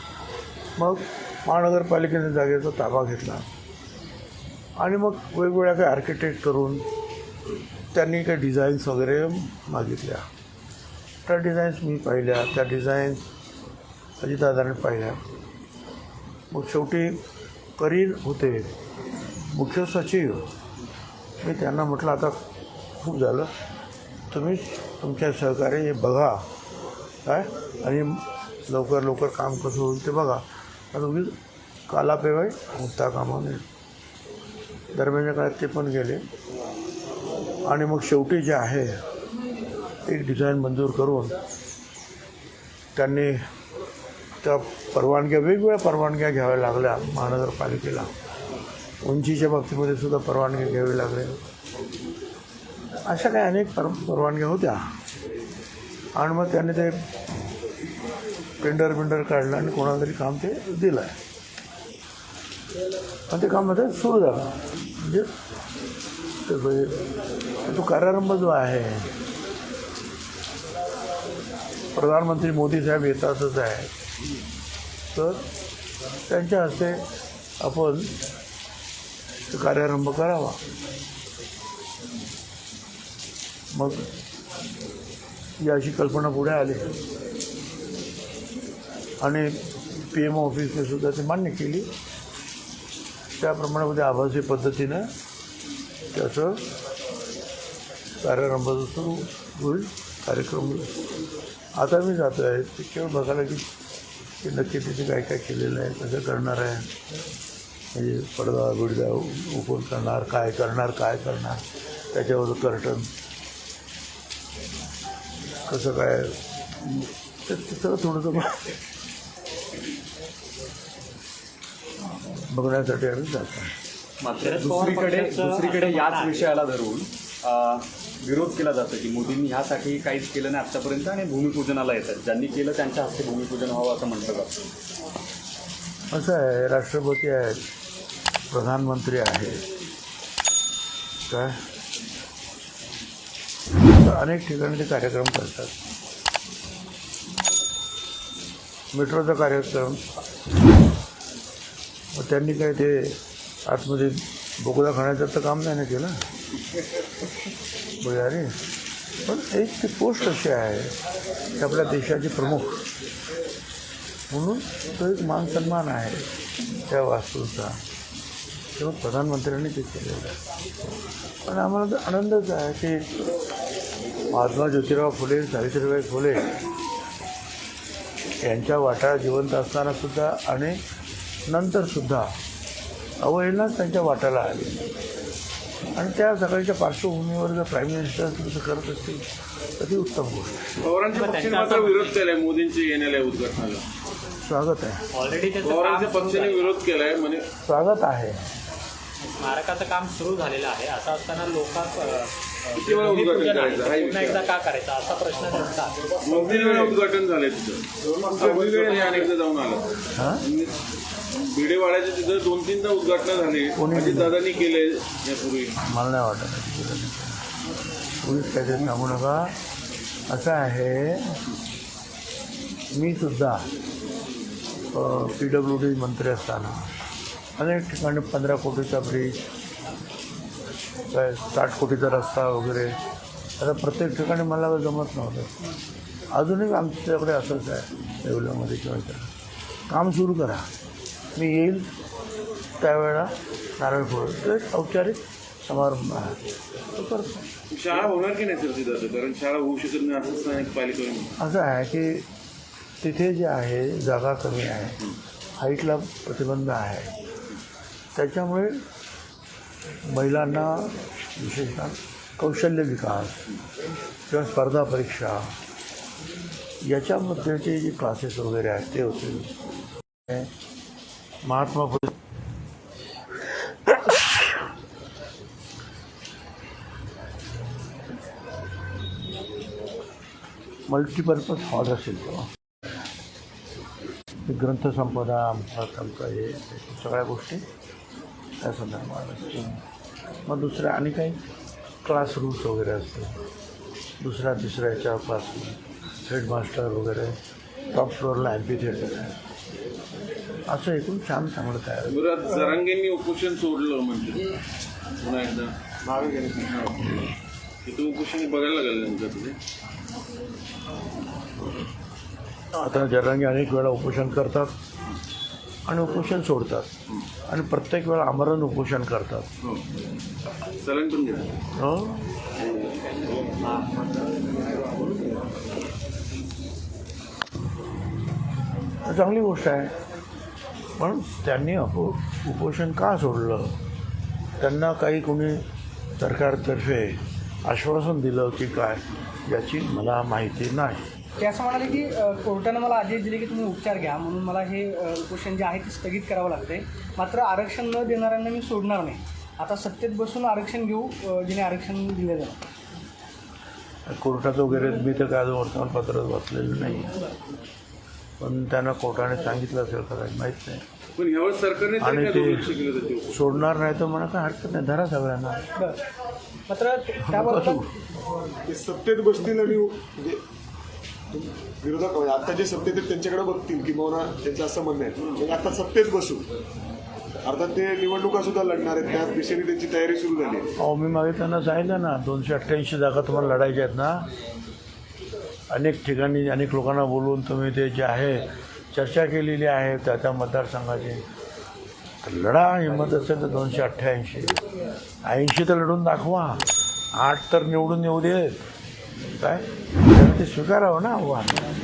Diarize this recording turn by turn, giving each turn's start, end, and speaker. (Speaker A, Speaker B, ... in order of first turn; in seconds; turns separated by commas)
Speaker A: 0.8-3.5, Speaker A: 4.8-6.8, Speaker A: 7.9-10.2, Speaker A: 11.2-13.2, Speaker A: 14.2-15.2, Speaker A: 16.5-17.2, Speaker A: 17.8-18.7, Speaker A: 19.5-20.4, Speaker A: 21.4-22.3, Speaker A: 23.0-23.5, Speaker A: 24.3-26.4, Speaker A: 27.2-30.4, Speaker A: 30.9-31.3, Speaker A: 31.9-33.6, Speaker A: 34.9-36.2, Speaker A: 37.7-39.0, Speaker A: 40.0-41.4, Speaker A: 42.9-43.4, Speaker A: 44.4-48.1, Speaker A: 49.0-51.4, Speaker A: 53.1-54.8, Speaker A: 56.2-56.9, Speaker A: 58.6-61.1, Speaker A: 63.3-65.3, Speaker A: 66.5-67.0, Speaker A: 67.6-69.1, Speaker A: 71.9-73.9, Speaker A: 75.1-75.4, Speaker A: 76.3-77.0, Speaker A: 77.6-78.1, Speaker A: 79.5-80.6, Speaker A: 83.7-84.1, Speaker A: 85.6-86.9, Speaker A: 89.2-89.5, Speaker A: 90.1-91.9, Speaker A: 93.4-95.1, Speaker A: 96.1-96.6, Speaker A: 98.2-100.9, Speaker A: 101.8-103.6, Speaker A: 104.4-106.9, Speaker A: 107.9-111.6, Speaker A: 112.1-113.1, Speaker A: 115.7-118.7, Speaker A: 122.3-123.7, Speaker B: 124.2-134.5, Speaker C: 124.4-126.5, Speaker A: 136.1-137.6, Speaker A: 138.5-139.6, Speaker A: 141.3-141.6, Speaker A: 143.9-145.8, Speaker A: 148.9-150.0, Speaker A: 152.1-156.1, Speaker A: 158.0-158.5, Speaker A: 159.2-160.9, Speaker A: 161.6-162.8, Speaker A: 164.3-166.2, Speaker A: 166.9-167.8, Speaker A: 168.8-170.4, Speaker A: 171.5-173.0, Speaker A: 174.3-176.5, Speaker A: 178.4-180.8, Speaker A: 181.5-182.3, Speaker A: 183.2-184.8, Speaker A: 185.9-189.2, Speaker A: 189.8-190.8, Speaker D: 190.8-193.8, Speaker C: 191.1-192.2, Speaker A: 194.4-195.0, Speaker C: 195.1-196.7, Speaker D: 195.6-197.4, Speaker A: 197.7-198.4, Speaker C: 199.2-206.0, Speaker D: 202.7-204.4, Speaker D: 206.2-209.8, Speaker E: 206.3-206.9, Speaker E: 208.0-209.3, Speaker A: 210.1-210.4, Speaker D: 210.4-210.7, Speaker D: 211.5-215.8, Speaker A: 213.8-214.3, Speaker A: 215.8-217.4, Speaker A: 218.2-219.6, Speaker A: 220.3-221.4, Speaker A: 222.9-223.6, Speaker A: 224.9-226.8, Speaker A: 227.6-229.3, Speaker A: 231.1-232.9, Speaker A: 233.6-235.5, Speaker A: 236.3-239.3, Speaker A: 239.9-240.6, Speaker A: 241.3-241.9, Speaker A: 242.8-246.4, Speaker A: 246.9-247.4, Speaker D: 247.7-251.3, Speaker A: 251.4-252.2, Speaker A: 253.0-255.0, Speaker A: 255.6-257.1, Speaker A: 258.1-258.8, Speaker A: 260.1-263.4, Speaker A: 264.3-265.5, Speaker A: 266.8-269.5, Speaker A: 271.4-272.1, Speaker A: 273.9-274.5, Speaker A: 280.9-282.5, Speaker A: 284.4-287.6, Speaker A: 288.6-289.8, Speaker A: 290.5-291.4, Speaker A: 292.0-293.4, Speaker A: 294.2-297.4, Speaker A: 297.9-299.3, Speaker A: 300.7-302.1, Speaker D: 302.1-304.5, Speaker D: 305.2-305.7, Speaker E: 306.1-306.6, Speaker D: 306.7-306.9, Speaker D: 307.8-309.6, Speaker A: 312.7-314.7, Speaker A: 315.9-316.9, Speaker A: 317.5-319.5, Speaker D: 320.8-321.5, Speaker A: 321.8-322.3, Speaker A: 329.0-329.9, Speaker A: 331.0-333.8, Speaker A: 334.6-335.6, Speaker A: 336.2-341.0, Speaker F: 341.4-352.6, Speaker A: 354.1-357.2, Speaker A: 358.4-360.8, Speaker D: 361.2-363.3, Speaker A: 362.0-362.7, Speaker A: 363.3-365.6, Speaker F: 366.7-367.8, Speaker A: 367.2-367.9, Speaker E: 368.6-370.4, Speaker E: 371.3-376.4, Speaker E: 377.4-380.7, Speaker A: 380.8-384.2, Speaker A: 385.7-391.2, Speaker A: 392.2-394.6, Speaker A: 395.2-396.6, Speaker A: 397.1-398.6, Speaker A: 399.4-401.7